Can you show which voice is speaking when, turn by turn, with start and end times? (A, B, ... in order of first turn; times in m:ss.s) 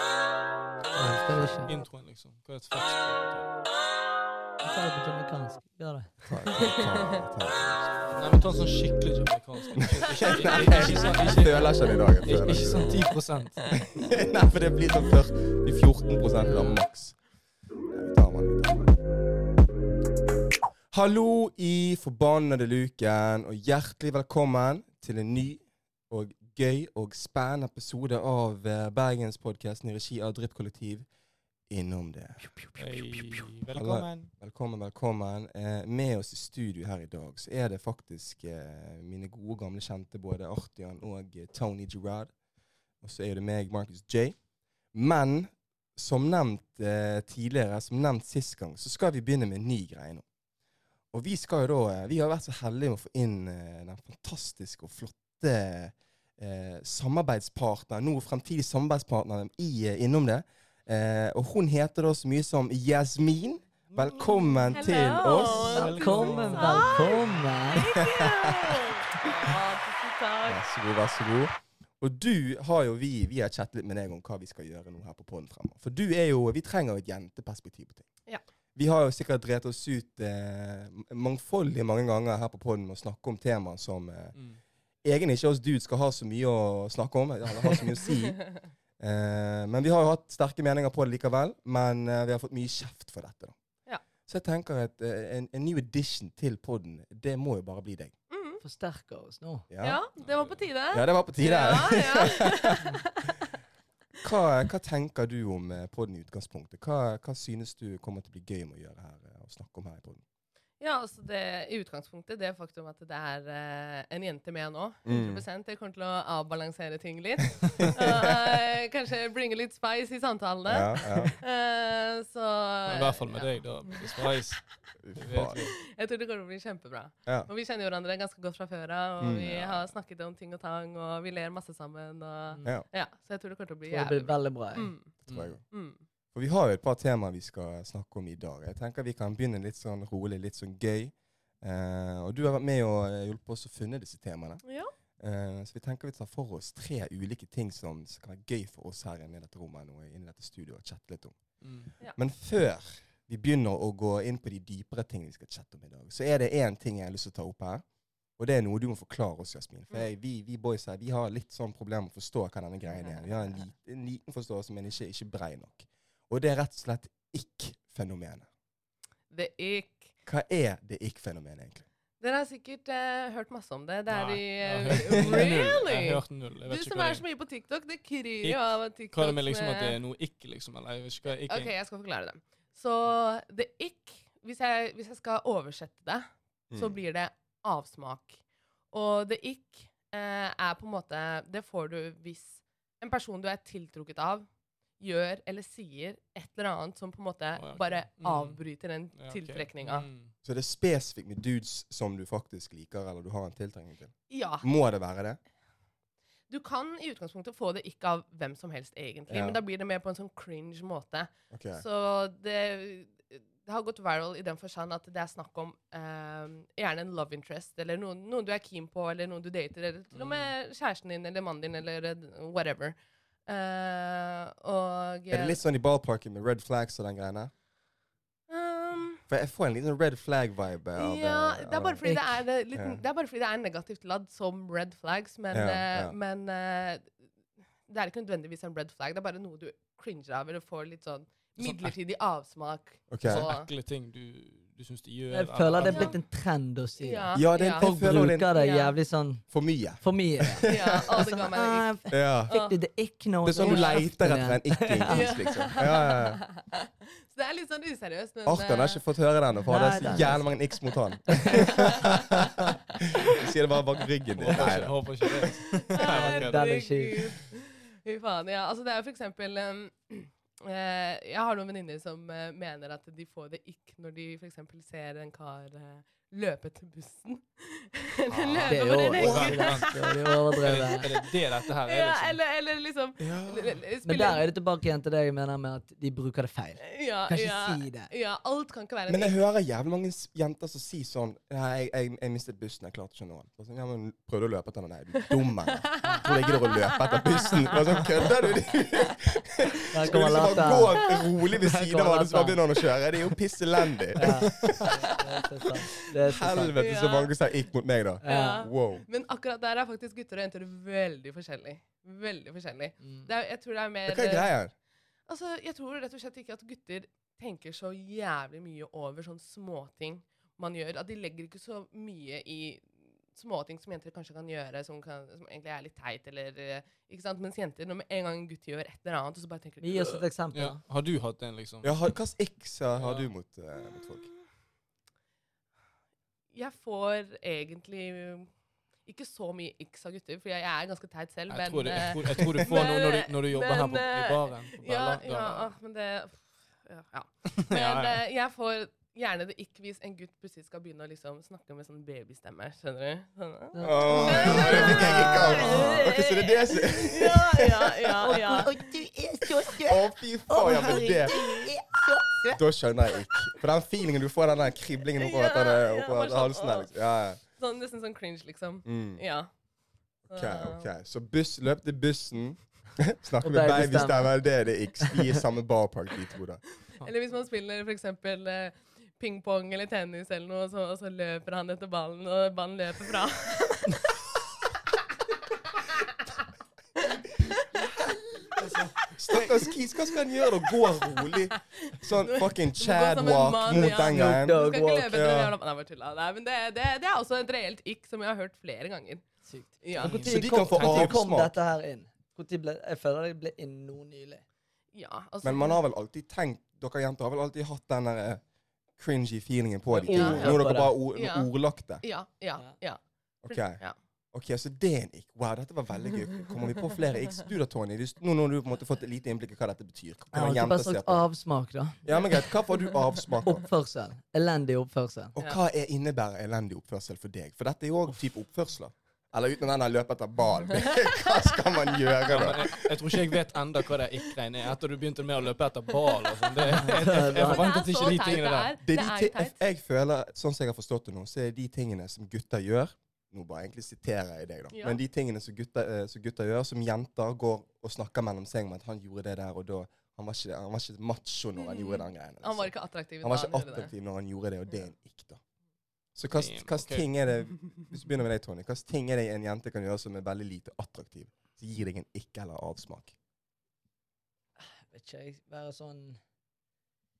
0:00.9-0:01.6 A
0:00.9-0:01.7 B
0:01.6-0:03.5 C
0:04.6-0:06.3 B
0:06.2-0:08.6 A
0:06.6-0:07.0 D
0:08.1-0:13.6 C
0:09.8-0:13.0 A
0:10.5-0:11.1 D
0:13.7-0:17.2 A
0:16.5-0:16.8 C
0:17.9-0:19.0 A
0:20.9-0:31.1 A
0:31.7-0:32.6 A
0:32.7-0:34.3 C
0:33.7-0:42.3 A
0:43.0-0:44.4 A
0:44.9-0:50.2 A
0:51.1-1:05.9 A
1:04.7-1:10.6 D
1:05.4-1:07.7 C
1:05.7-1:07.9 B
1:07.9-1:09.5 A
1:10.5-1:18.0 A
1:18.8-1:24.4 A
1:25.0-1:28.4 A
1:29.0-1:33.6 A
1:34.2-1:38.1 A
1:38.3-1:38.6 D
1:38.6-1:39.6 B
1:39.7-1:40.0 A
1:39.8-1:43.3 D
1:40.2-1:40.6 C
1:40.9-1:42.8 A
1:44.2-1:50.2 A
1:50.8-2:04.3 D
1:55.0-1:55.4 A
1:57.8-1:58.3 A
2:00.6-2:01.3 A
2:02.9-2:05.8 C
2:05.0-2:05.6 A
2:05.7-2:16.0 D
2:09.2-2:09.8 A
2:13.9-2:14.9 B
2:15.3-2:15.6 A
2:15.3-2:15.6 C
2:16.3-2:24.6 A
2:24.6-2:24.9 D
2:25.2-2:31.4 A
2:31.6-2:31.9 C
2:32.1-2:37.8 A
2:38.4-2:48.5 A
2:49.3-2:50.1 D
2:50.2-2:51.8 A
2:52.2-3:00.0 D
2:54.1-2:57.2 C
2:58.4-3:01.7 C
3:01.4-3:08.4 D
3:06.7-3:07.0 A
3:08.9-3:14.5 D
3:15.0-3:20.1 D
3:17.6-3:18.6 C
3:19.1-3:20.3 C
3:20.4-3:25.4 A
3:24.3-3:24.7 D
3:26.5-3:42.9 D
3:29.3-3:29.6 A
3:31.5-3:31.8 A
3:40.1-3:40.5 C
3:43.5-3:45.6 D
3:45.3-3:47.5 A
3:48.5-3:49.2 D
3:49.3-3:52.0 A
3:51.0-3:57.1 D
3:52.0-3:52.3 B
3:55.5-3:56.1 A
3:57.9-4:03.7 D
4:01.6-4:01.9 C
4:03.1-4:03.4 A
4:03.2-4:06.2 C
4:05.3-4:09.4 B
4:05.8-4:06.2 D
4:07.0-4:07.9 D
4:07.3-4:08.5 A
4:08.5-4:08.9 D
4:09.5-4:11.1 A
4:10.0-4:15.3 B
4:10.7-4:11.9 D
4:12.1-4:12.5 A
4:12.5-4:12.8 D
4:13.4-4:16.4 A
4:13.6-4:14.0 D
4:15.1-4:19.0 D
4:18.4-4:24.9 A
4:19.7-4:20.5 B
4:21.3-4:21.8 B
4:21.5-4:22.3 D
4:24.4-4:26.6 C
4:25.4-4:44.4 D
4:26.0-4:27.3 B
4:38.3-4:39.9 C
4:38.7-4:41.1 B
4:40.6-4:42.4 C
4:43.2-4:43.8 A
4:44.0-4:48.1 B
4:46.8-4:49.3 D
4:49.1-5:04.9 A
4:55.8-4:58.2 D
4:59.9-5:02.6 B
5:04.2-5:06.8 B
5:06.2-5:09.0 A
5:06.8-5:07.3 D
5:08.2-5:08.6 B
5:08.2-5:14.5 D
5:14.1-5:14.7 A
5:15.3-5:30.2 D
5:29.8-5:30.8 B
5:30.5-5:31.9 C
5:31.8-5:34.3 A
5:33.0-5:33.3 C
5:36.5-5:38.5 D
5:39.0-5:58.7 D
5:41.5-5:45.7 C
5:47.6-5:48.2 C
5:53.7-5:56.1 B
5:53.8-5:58.2 A
5:58.2-6:02.6 B
5:59.6-6:01.7 A
6:02.5-6:07.4 A
6:05.2-6:06.9 D
6:07.6-6:09.5 D
6:08.8-6:09.2 A
6:10.3-6:10.9 D
6:10.3-6:16.6 A
6:13.4-6:14.4 B
6:17.0-6:24.0 D
6:27.0-6:27.9 D
6:28.6-6:28.9 C
6:29.1-6:35.5 A
6:29.3-6:29.8 D
6:31.3-6:39.2 D
6:33.8-6:35.1 B
6:39.5-6:44.4 B
6:39.8-6:40.2 D
6:40.0-6:41.2 C
6:40.2-6:41.5 A
6:44.9-6:45.8 D
6:45.4-6:48.4 A
6:49.0-6:52.0 A
6:50.0-6:50.9 B
6:50.0-6:51.5 D
6:52.0-6:54.0 D
6:53.4-6:53.8 A
6:54.3-7:01.3 A
7:00.3-7:02.0 B
7:02.0-7:03.6 A
7:03.4-7:05.3 B
7:05.3-7:13.2 A
7:12.3-7:18.7 C
7:16.8-7:17.7 B
7:17.1-7:19.6 D
7:18.8-7:32.7 A
7:24.7-7:25.0 D
7:31.6-7:33.9 D
7:33.2-7:35.4 A
7:36.1-7:43.1 A
7:36.3-7:37.1 C
7:44.6-7:46.2 B